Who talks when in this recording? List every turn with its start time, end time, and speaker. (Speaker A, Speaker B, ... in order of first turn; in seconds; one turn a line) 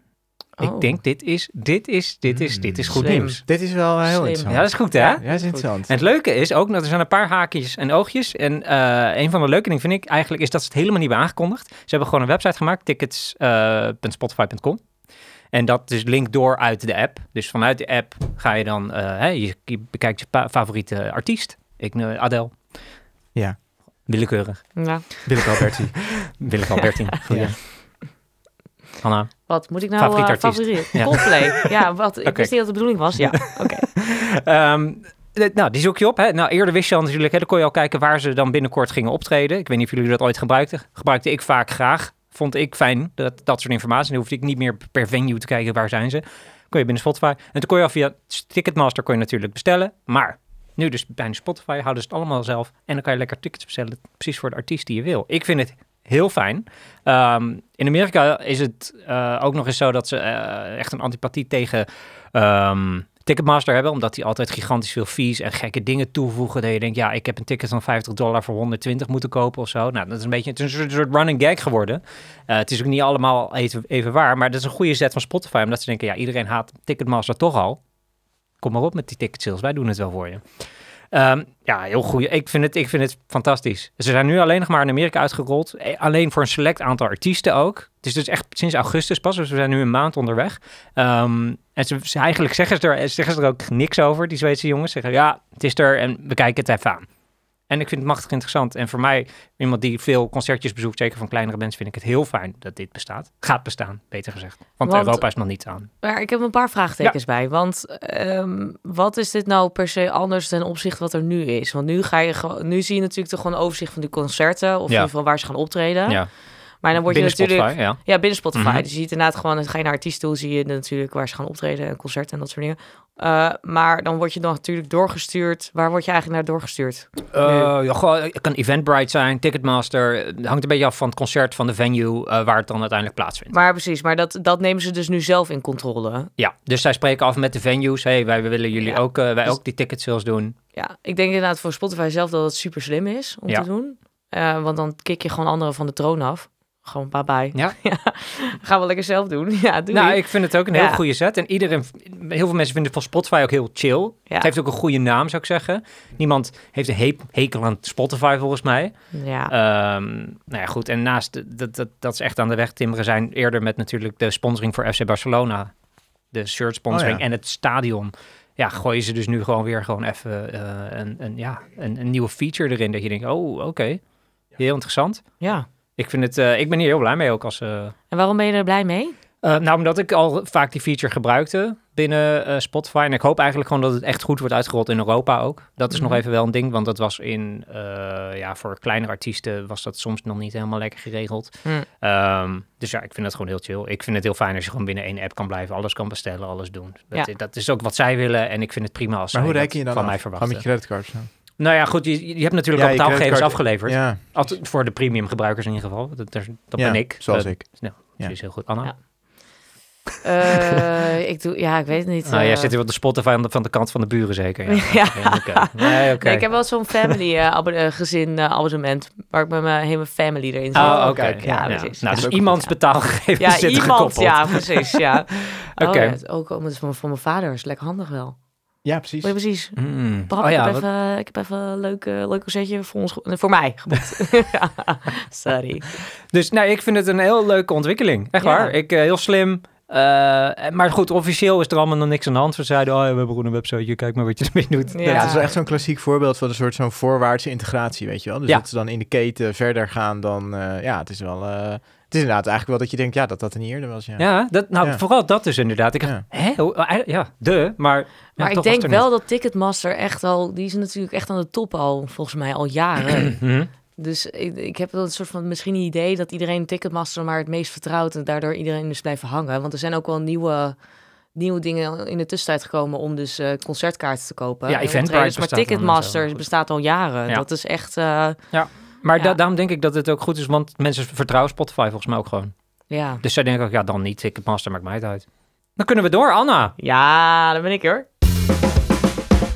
Speaker A: 0.6-1.0
Speaker B: 0.6-3.4
Speaker C: 2.3-5.9
Speaker A: 2.9-3.4
Speaker A: 4.0-5.7
Speaker B: 4.5-5.2
Speaker B: 5.9-14.8
Speaker B: 15.5-22.6
Speaker B: 24.1-25.2
Speaker A: 24.8-25.2
Speaker C: 25.2-26.2
Speaker B: 26.4-27.6
Speaker C: 27.3-27.6
Speaker B: 29.0-31.7
Speaker A: 29.5-34.0
Speaker B: 32.2-32.5
Speaker B: 33.9-77.8
Speaker B: 78.6-80.4
Speaker B: 81.1-97.0
Speaker B: 97.7-105.9
Speaker A: 104.8-105.2
Speaker A: 106.0-116.2
Speaker A: 116.8-127.7
Speaker B: 117.0-118.0
Speaker B: 118.5-118.8
Speaker B: 127.3-133.5
Speaker A: 133.5-136.3
Speaker B: 136.4-140.5
Speaker A: 138.8-139.6
Speaker A: 140.7-151.0
Speaker B: 149.9-158.9
Speaker A: 159.1-159.5
Speaker B: 159.5-165.7
Speaker B: 166.3-174.0
Speaker C: 166.9-167.2
Speaker B: 174.6-175.2
Speaker A: 175.4-175.7
Speaker B: 175.9-177.9
Speaker A: 178.1-179.2
Speaker B: 179.4-200.6
Speaker A: 185.9-186.2
Speaker C: 199.3-201.3
Speaker B: 201.6-208.9
Speaker C: 202.7-204.5
Speaker C: 206.8-208.4
Speaker A: 210.2-212.7
Speaker B: 212.2-217.1
Speaker A: 214.7-222.4
Speaker B: 220.7-226.2
Speaker C: 220.8-222.7
Speaker A: 223.4-228.3
Speaker C: 228.8-229.3
Speaker A: 229.2-236.0
Speaker B: 229.8-230.8
Speaker B: 236.3-245.4
Speaker A: 238.4-238.7
Speaker A: 244.9-245.5
Speaker C: 245.1-255.0
Speaker B: 254.2-259.1
Speaker A: 258.4-270.8
Speaker B: 263.3-263.7
Speaker A: 271.3-278.5
Speaker B: 274.7-276.3
Speaker B: 278.5-282.5
Speaker A: 282.9-283.2
Speaker B: 283.2-285.2
Speaker B: 285.8-286.7
Speaker A: 286.8-288.1